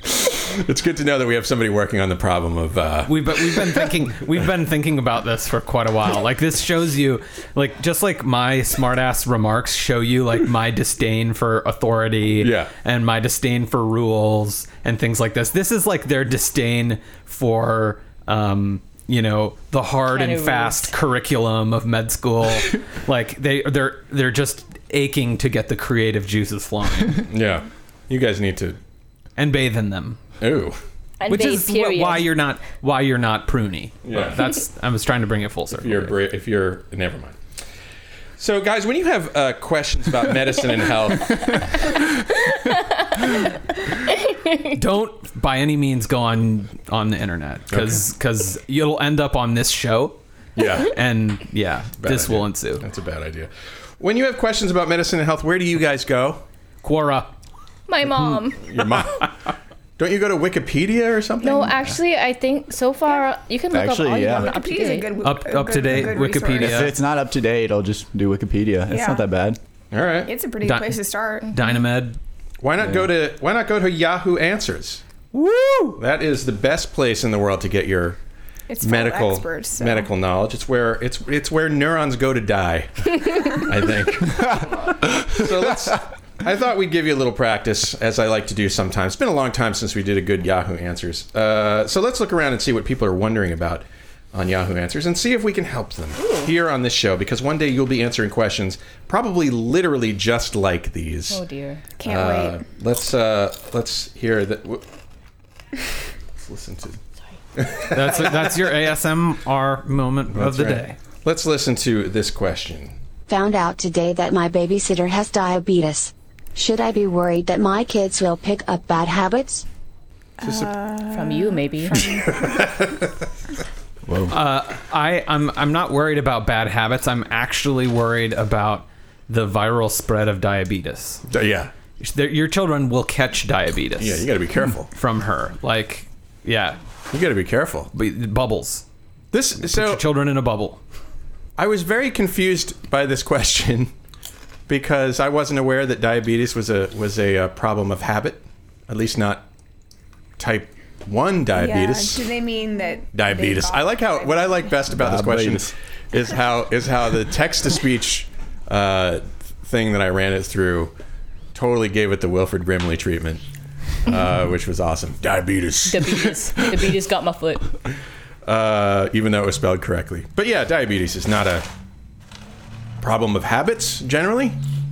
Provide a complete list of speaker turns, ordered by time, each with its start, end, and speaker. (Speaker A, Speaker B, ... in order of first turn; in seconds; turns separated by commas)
Speaker A: 0.5-3.6, Speaker B: 3.1-27.3, Speaker A: 12.4-12.7, Speaker C: 20.1-20.9, Speaker A: 27.3-28.8, Speaker B: 29.4-30.2, Speaker A: 30.4-30.8, Speaker C: 31.2-32.3, Speaker B: 31.3-36.2, Speaker A: 34.0-34.4, Speaker A: 35.7-37.4, Speaker A: 38.4-41.7, Speaker C: 42.5-43.4, Speaker C: 44.1-44.7, Speaker B: 44.7-50.2, Speaker A: 47.7-48.0, Speaker A: 50.6-51.0, Speaker B: 50.7-52.9, Speaker A: 52.0-56.4, Speaker B: 56.8-57.3, Speaker C: 57.9-59.1, Speaker A: 58.6-59.3, Speaker A: 60.0-61.8, Speaker C: 61.4-65.2, Speaker D: 63.7-64.5, Speaker E: 64.2-66.9, Speaker B: 65.2-67.0, Speaker D: 66.0-69.6, Speaker E: 68.9-69.3, Speaker A: 69.9-70.3, Speaker E: 70.2-71.5, Speaker B: 70.6-72.2, Speaker A: 72.6-75.0, Speaker D: 72.8-73.1, Speaker B: 75.3-76.0, Speaker A: 76.0-78.2, Speaker E: 78.7-80.1, Speaker A: 78.8-101.4, Speaker C: 96.2-96.5, Speaker C: 101.3-101.9, Speaker E: 102.0-102.6, Speaker A: 102.0-104.8, Speaker A: 106.4-107.0, Speaker A: 107.6-108.7, Speaker B: 107.9-111.0, Speaker A: 110.3-113.0, Speaker F: 113.3-119.6, Speaker E: 120.4-122.2, Speaker A: 120.4-120.7, Speaker C: 121.1-122.2, Speaker A: 121.9-123.1, Speaker D: 124.1-124.3, Speaker B: 124.3-131.2, Speaker A: 131.3-131.7, Speaker B: 132.0-134.3, Speaker A: 134.0-134.9, Speaker B: 134.9-136.8, Speaker A: 137.1-137.9, Speaker B: 137.9-138.8, Speaker A: 139.3-140.0, Speaker B: 139.6-140.8, Speaker A: 141.6-143.9, Speaker A: 144.7-149.5, Speaker A: 150.4-152.3, Speaker E: 151.5-154.8, Speaker A: 153.1-160.9, Speaker D: 154.9-155.7, Speaker A: 161.5-163.4, Speaker A: 164.1-166.2, Speaker C: 165.9-167.7, Speaker A: 168.4-171.7, Speaker A: 173.0-174.6